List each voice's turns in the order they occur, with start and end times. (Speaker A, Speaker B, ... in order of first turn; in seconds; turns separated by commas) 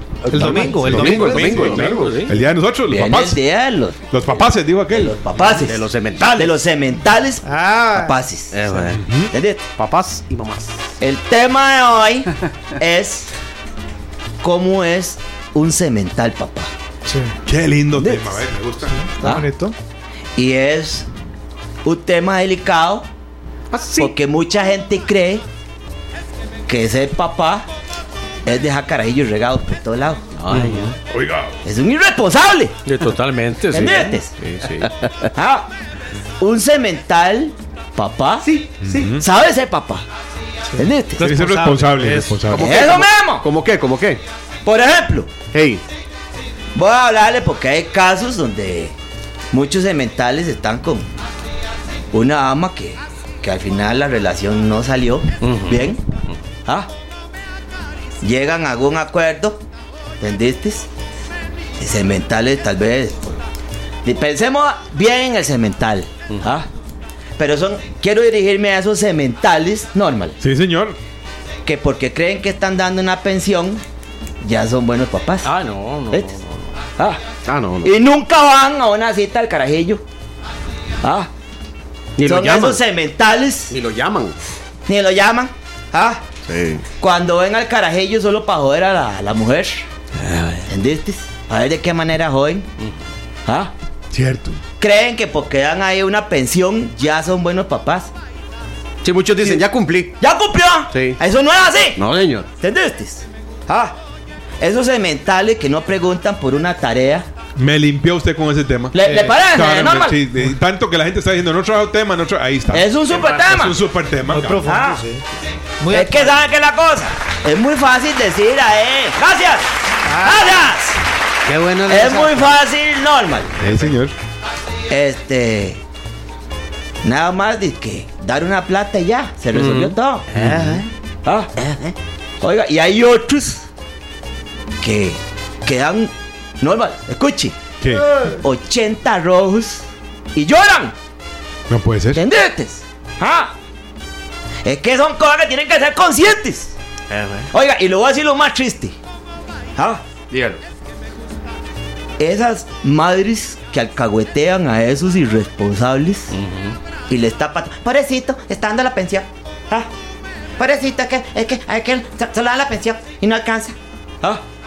Speaker A: 0.2-2.3, Speaker B: 0.3-1.8, Speaker C: 0.3-3.4, Speaker D: 1.8-2.3, Speaker E: 2.9-4.0, Speaker C: 4.1-5.2, Speaker E: 4.9-8.6, Speaker A: 5.4-6.6, Speaker B: 7.4-8.2, Speaker A: 8.5-9.1, Speaker C: 8.9-9.3, Speaker E: 9.2-9.6, Speaker A: 9.8-10.7, Speaker E: 11.0-13.3, Speaker E: 14.4-16.7, Speaker B: 17.1-17.4, Speaker C: 17.4-19.0, Speaker E: 17.9-18.4, Speaker B: 18.9-19.8, Speaker E: 19.2-19.5, Speaker E: 20.4-21.1, Speaker E: 21.9-23.1, Speaker A: 23.7-24.1, Speaker E: 23.9-25.4, Speaker E: 26.7-27.7, Speaker E: 28.4-30.2, Speaker A: 30.4-30.9, Speaker D: 30.5-30.9, Speaker C: 31.1-31.6, Speaker E: 31.6-32.8, Speaker D: 32.9-35.1, Speaker E: 33.7-34.3, Speaker A: 34.6-34.9, Speaker E: 35.4-35.7, Speaker E: 36.4-40.0, Speaker B: 38.5-39.0, Speaker C: 38.8-39.2, Speaker E: 40.8-41.3, Speaker B: 40.8-42.5, Speaker C: 41.2-42.8, Speaker A: 42.5-44.2, Speaker E: 42.5-43.5, Speaker E: 44.6-45.3, Speaker A: 45.5-45.8, Speaker E: 46.8-48.9, Speaker E: 49.5-51.1, Speaker E: 52.1-56.0, Speaker D: 55.4-55.8, Speaker E: 58.2-59.6, Speaker E: 60.2-60.9, Speaker E: 61.8-63.4, Speaker E: 64.0-66.7, Speaker E: 67.4-70.4, Speaker C: 70.4-71.0, Speaker E: 71.7-73.8, Speaker E: 74.4-75.5, Speaker D: 75.4-76.7, Speaker E: 76.1-76.3, Speaker E: 77.0-77.2, Speaker A: 77.5-77.9, Speaker E: 77.8-80.0, Speaker E: 81.0-81.3, Speaker A: 82.2-82.8, Speaker E: 82.2-83.8, Speaker A: 83.7-84.4, Speaker E: 84.9-86.2, Speaker A: 86.5-86.8, Speaker E: 87.0-89.9, Speaker A: 90.2-90.7, Speaker E: 90.7-92.7, Speaker E: 93.5-93.7, Speaker C: 94.1-94.6, Speaker E: 94.8-98.1, Speaker A: 99.0-100.2, Speaker E: 100.2-102.0, Speaker A: 100.9-101.2, Speaker A: 102.0-102.5, Speaker E: 102.6-104.0, Speaker E: 104.6-107.3, Speaker C: 107.6-114.7, Speaker E: 108.9-110.2, Speaker B: 109.0-109.4, Speaker E: 112.7-113.8, Speaker B: 114.3-115.2, Speaker E: 114.6-115.0, Speaker B: 115.8-116.4, Speaker E: 115.9-121.0, Speaker B: 120.1-120.4, Speaker A: 121.5-122.6, Speaker E: 121.8-123.5, Speaker C: 123.6-124.2, Speaker A: 123.7-124.0, Speaker E: 124.9-125.8, Speaker E: 127.0-130.2, Speaker D: 129.5-129.9, Speaker A: 129.7-130.9, Speaker C: 130.3-130.8, Speaker E: 131.2-131.5, Speaker A: 131.6-131.9, Speaker E: 132.4-133.7, Speaker E: 134.8-137.6, Speaker C: 137.8-138.1, Speaker E: 138.2-140.9, Speaker C: 141.7-142.2, Speaker E: 142.1-143.5, Speaker E: 144.7-146.7, Speaker A: 147.1-147.5, Speaker E: 147.5-149.0, Speaker E: 149.8-150.0, Speaker A: 150.3-150.6, Speaker E: 152.2-156.4, Speaker D: 156.3-156.7, Speaker E: 157.1-159.9, Speaker E: 160.6-164.4